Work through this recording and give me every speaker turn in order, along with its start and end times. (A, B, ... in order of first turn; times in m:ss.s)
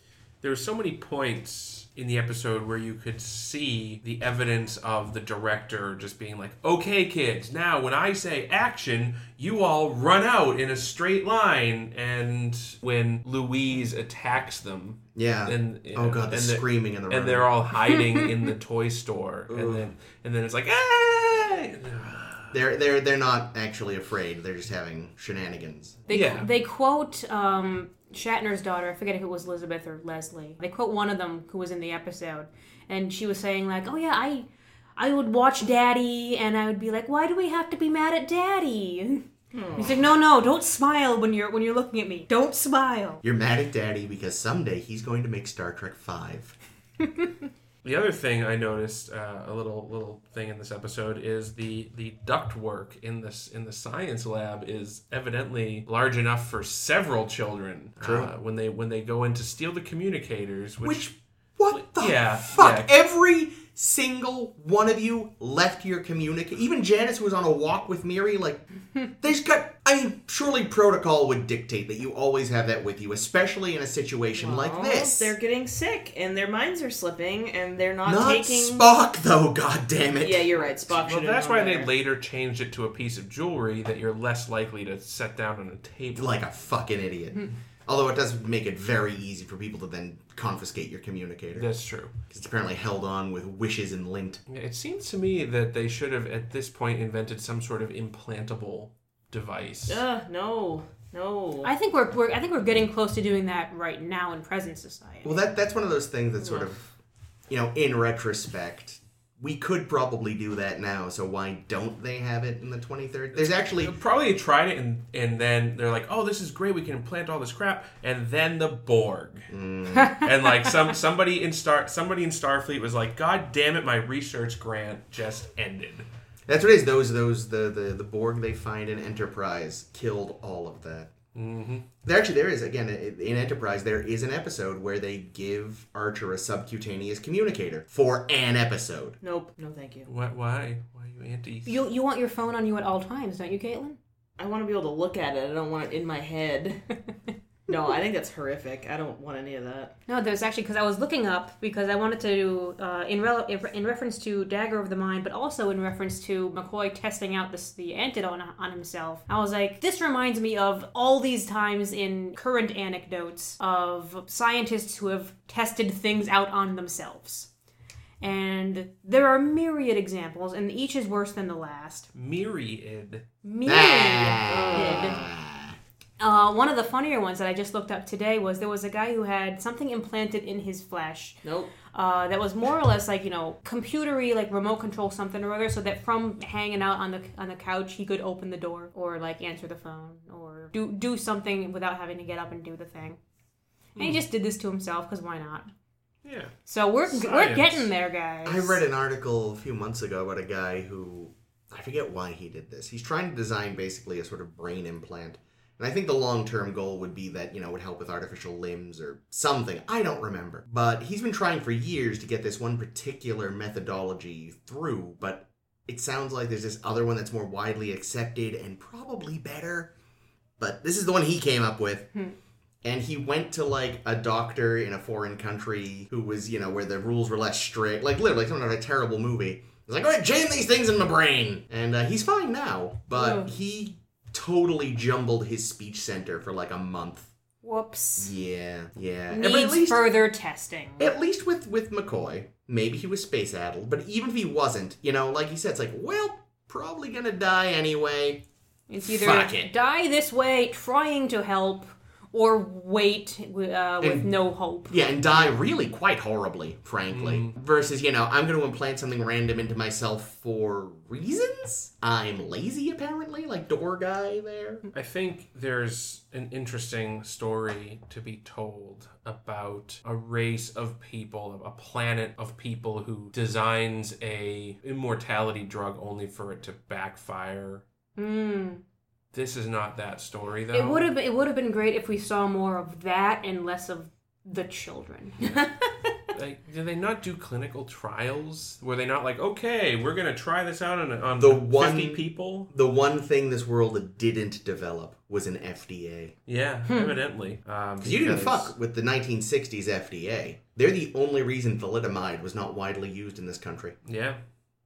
0:00.4-0:22.6 A
0:15.2-0:17.5 B
0:19.5-0:19.8 B
0:22.5-0:26.0 B
0:26.1-0:39.2 C
0:26.1-0:26.5 A
0:39.5-0:40.1 D
0:39.8-0:43.2 C
0:43.2-0:46.6 B
0:47.8-1:01.1 A
0:58.0-0:58.3 B
1:00.8-1:15.4 B
1:01.7-1:03.0 A
1:14.4-1:18.9 D
1:18.0-1:20.7 B
1:20.2-1:21.9 D
1:21.0-1:26.4 A
1:26.2-1:31.7 B
1:31.5-1:32.1 A
1:32.3-1:34.4 B
1:34.5-1:40.0 A
1:39.9-1:41.7 D
1:41.6-1:45.5 C
1:45.2-1:46.9 B
1:46.4-1:46.7 D
1:47.5-1:54.0 B
1:53.4-1:59.5 A
1:59.5-2:00.2 B
2:00.1-2:06.1 A
2:06.5-2:11.1 B
2:11.3-2:11.9 A
2:12.0-2:19.2 B
2:19.2-2:20.1 D
2:20.1-2:21.8 A
2:21.7-2:24.0 C
2:24.4-2:26.9 D
2:27.7-2:30.0 D
2:30.1-2:47.5 C
2:48.2-2:52.1 C
2:52.2-2:53.2 A
2:53.4-2:55.2 C
2:53.6-2:55.8 B
2:54.5-2:55.3 D
2:56.2-3:13.2 C
3:01.4-3:01.8 D
3:14.0-3:15.7 C
3:16.2-3:16.6 A
3:16.7-3:18.8 C
3:17.1-3:17.9 A
3:18.4-3:39.9 B
3:40.6-3:42.1 B
3:42.8-3:57.3 B
3:53.1-3:53.5 C
3:57.6-3:58.3 C
3:58.2-4:00.1 B
3:59.3-4:01.1 C
4:01.0-4:08.4 B
4:08.9-4:15.6 C
4:09.0-4:09.7 B
4:14.0-4:14.3 B
4:14.9-4:24.9 B
4:17.1-4:17.5 A
4:24.9-4:37.8 A
4:38.2-4:38.8 C
4:39.3-4:41.1 A
4:40.7-4:45.7 C
4:46.3-4:52.7 A
4:51.4-4:56.4 B
4:56.5-4:58.7 A
4:56.9-4:57.2 C
4:58.0-5:04.0 B
5:04.0-5:04.4 A